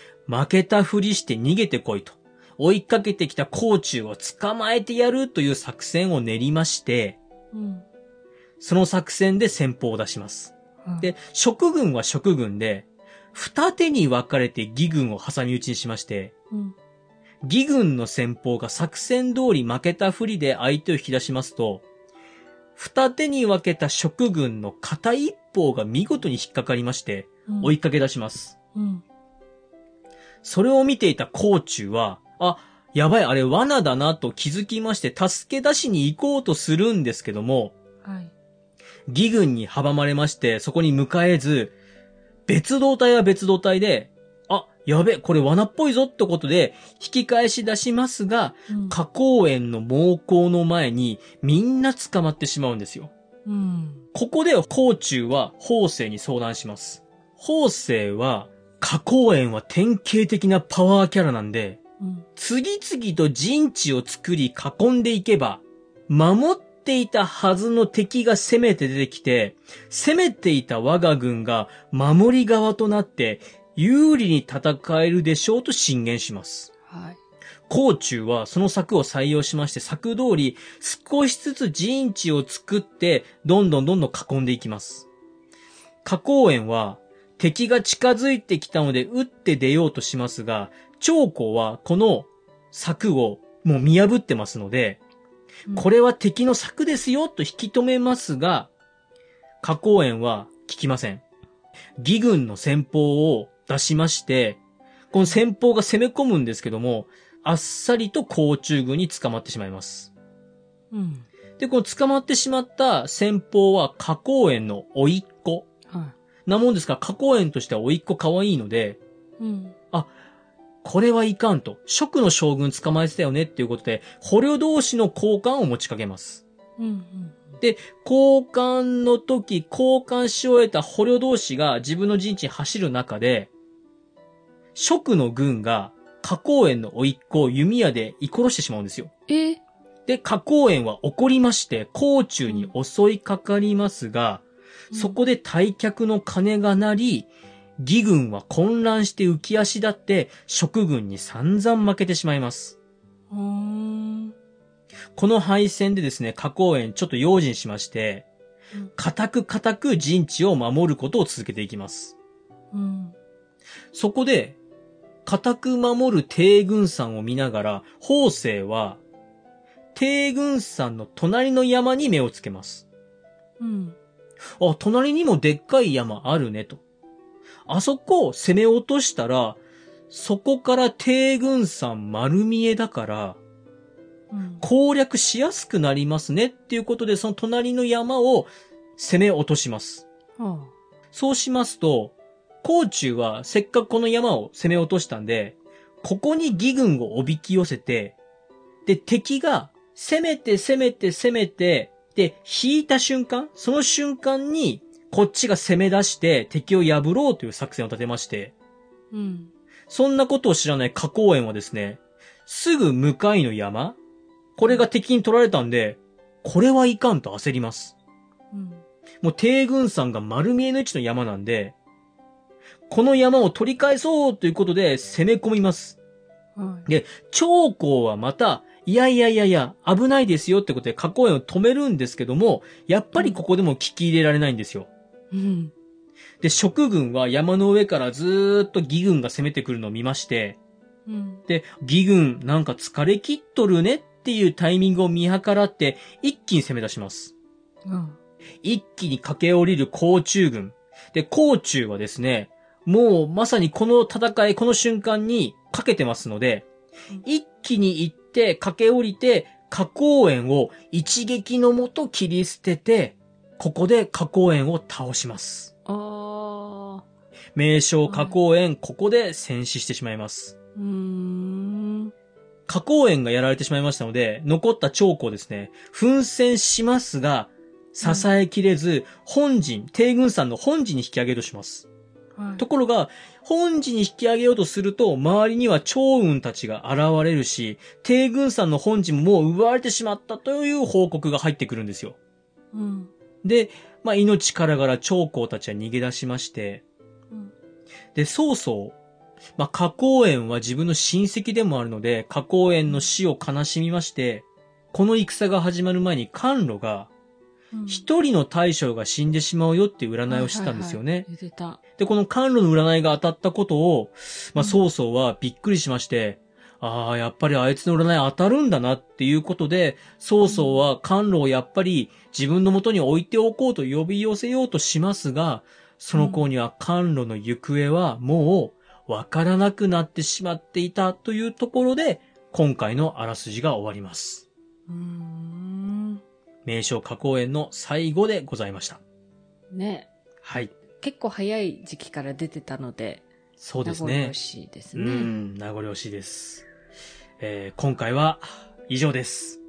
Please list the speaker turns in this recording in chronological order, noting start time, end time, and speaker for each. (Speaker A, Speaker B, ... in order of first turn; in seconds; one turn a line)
Speaker A: 0.3-7.2
Speaker B: 7.5-7.8
Speaker A: 8.6-16.3
Speaker A: 17.4-21.8
Speaker A: 22.8-28.6
Speaker B: 27.5-27.7
Speaker B: 28.7-29.0
Speaker A: 30.4-37.8
Speaker B: 38.0-38.3
Speaker A: 39.1-41.8
Speaker A: 42.5-53.1
Speaker B: 48.7-49.0
Speaker B: 53.5-54.0
Speaker A: 54.1-61.8
Speaker B: 62.0-62.2
Speaker A: 62.4-76.7
Speaker B: 76.9-77.2
Speaker A: 77.7-85.1
Speaker A: 86.0-95.0
Speaker A: 95.7-98.7
Speaker A: 99.6-101.2
Speaker A: 102.0-104.6
Speaker A: 105.1-110.1
Speaker B: 110.9-111.3
Speaker A: 111.6-115.7
Speaker A: 116.5-119.0
Speaker B: 119.4-119.7
Speaker A: 120.8-126.4
Speaker B: 126.8-127.4
Speaker A: 127.6-133.5
Speaker A: 134.7-139.1
Speaker B: 139.3-139.6
Speaker A: 140.1-152.8
Speaker B: 142.5-142.7
Speaker B: 144.9-145.2
Speaker B: 153.3-154.3
Speaker A: 155.2-158.2
Speaker A: 158.9-162.2
Speaker B: 162.7-163.1
Speaker A: 163.9-164.6
Speaker A: 165.2-169.0
Speaker A: 169.9-172.8
Speaker B: 173.6-173.9
Speaker A: 174.6-176.8
Speaker A: 177.7-183.4
Speaker B: 184.3-184.6
Speaker A: 184.6-190.1
Speaker B: 190.4-190.7
Speaker A: 191.1-198.2
Speaker A: 198.8-208.5
Speaker B: 209.1-209.5
Speaker A: 209.9-214.0
Speaker A: 214.6-217.9
Speaker B: 218.5-218.8
Speaker A: 219.2-221.7
Speaker A: 222.9-226.0
Speaker B: 226.6-226.9
Speaker A: 226.8-234.9
Speaker B: 233.1-233.4
Speaker B: 235.3-235.7
Speaker A: 236.4-240.6
Speaker B: 241.1-241.4
Speaker A: 241.5-247.3
Speaker B: 247.9-248.2
Speaker A: 248.6-256.7
Speaker A: 257.2-265.7
Speaker B: 265.9-267.0
Speaker A: 267.5-270.6
Speaker B: 268.1-268.3
Speaker B: 270.8-272.1
Speaker A: 272.7-281.9
Speaker B: 278.0-278.3
Speaker B: 282.4-282.6
Speaker A: 282.6-292.2
Speaker B: 292.7-293.1
Speaker A: 293.4-296.8
Speaker A: 298.1-299.0
Speaker A: 299.6-307.1
Speaker B: 307.7-308.1
Speaker A: 307.9-311.3
Speaker B: 310.3-311.8
Speaker A: 312.0-334.5
Speaker B: 320.4-320.8
Speaker B: 326.1-326.4
Speaker B: 334.9-336.2
Speaker A: 336.6-339.0
Speaker B: 339.7-340.1
Speaker A: 340.4-340.7
Speaker B: 341.0-343.3
Speaker A: 343.6-344.3
Speaker B: 343.8-345.4
Speaker A: 344.9-346.6
Speaker A: 347.4-349.6